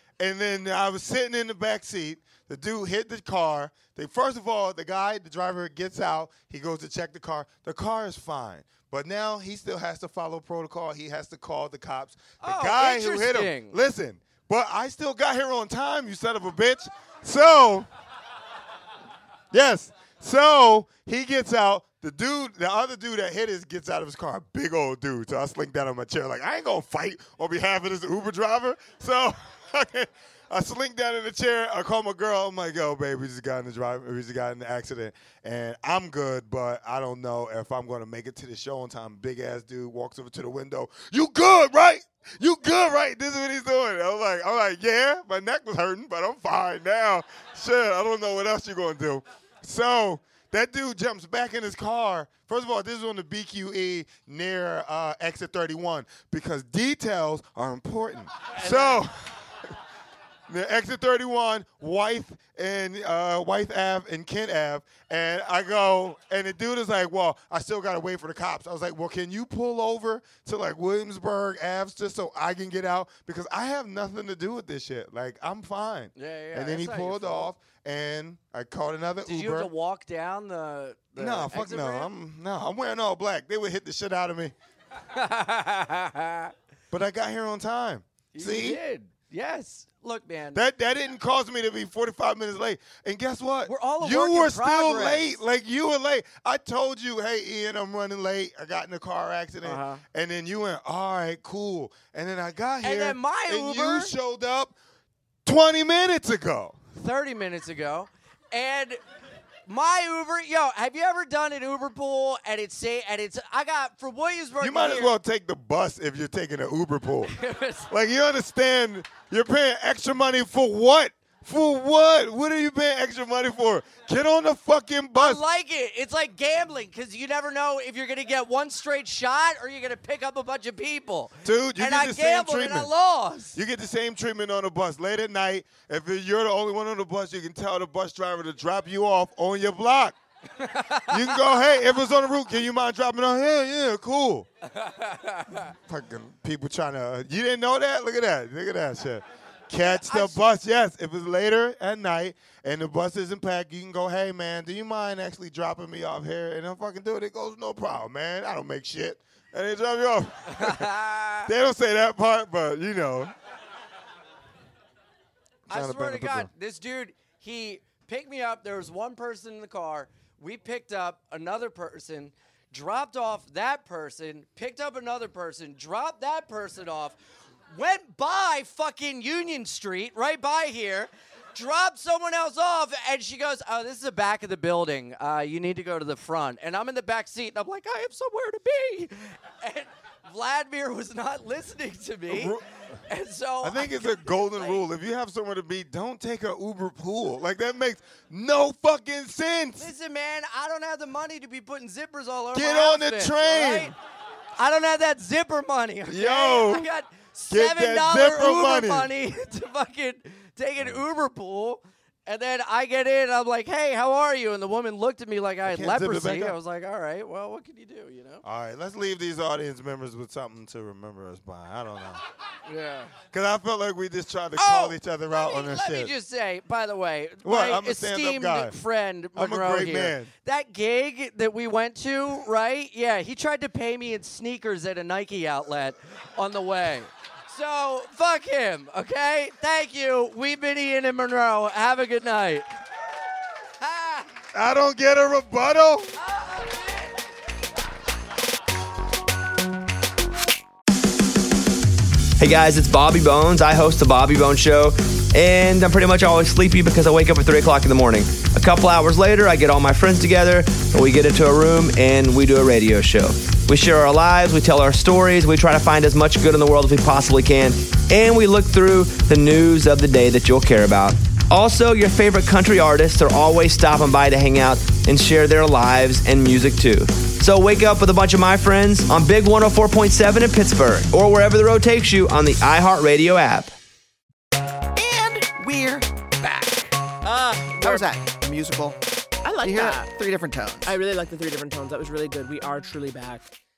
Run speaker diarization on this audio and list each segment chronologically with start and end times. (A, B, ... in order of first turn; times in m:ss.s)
0:00.2-0:17.9 A
0:12.4-0:13.8 B
0:19.5-0:59.5 A
0:58.5-0:59.0 B
1:00.5-1:19.7 A
1:16.2-1:17.5 B
1:19.2-1:22.1 B
1:21.2-1:24.5 A
1:25.1-1:26.5 B
1:26.9-1:28.8 A
1:28.3-1:30.6 B
1:30.5-1:44.8 A
1:33.6-1:35.4 B
1:39.6-1:40.0 B
1:42.8-1:44.2 B
1:45.4-1:46.8 A
1:46.9-1:49.0 B
1:49.7-1:55.1 B
1:54.6-1:57.3 A
1:57.3-1:57.9 B
1:57.9-2:05.4 A
2:05.2-2:13.6 B
2:11.4-2:12.9 A
2:13.6-2:20.2 A
2:20.6-2:21.4 B
2:21.1-2:24.5 A
2:24.7-2:25.7 B
2:25.9-2:40.9 A
2:29.8-2:30.4 B
2:40.5-2:41.5 B
2:41.5-2:43.3 A
2:45.7-2:46.5 A
2:45.7-2:57.2 B
2:57.7-3:14.8 B
3:12.3-3:12.6 A
3:13.6-3:19.9 A
3:19.8-3:24.0 B
3:22.5-3:24.0 A
3:24.6-3:38.4 B
3:26.1-3:26.8 A
3:27.5-3:29.1 A
3:35.7-3:36.6 A
3:38.4-3:42.2 A
3:42.7-3:43.1 B
3:43.3-3:46.1 A
3:44.6-4:02.7 B
3:47.4-3:48.7 A
3:49.4-3:50.3 A
4:03.8-4:04.3 B
4:04.5-4:06.1 A
4:06.2-4:06.8 B
4:12.4-4:43.8 C
4:45.0-4:47.0 D
4:47.2-4:48.0 E
4:47.8-4:49.0 D
4:49.4-4:50.1 E
4:49.6-4:50.9 D
4:50.8-4:53.5 E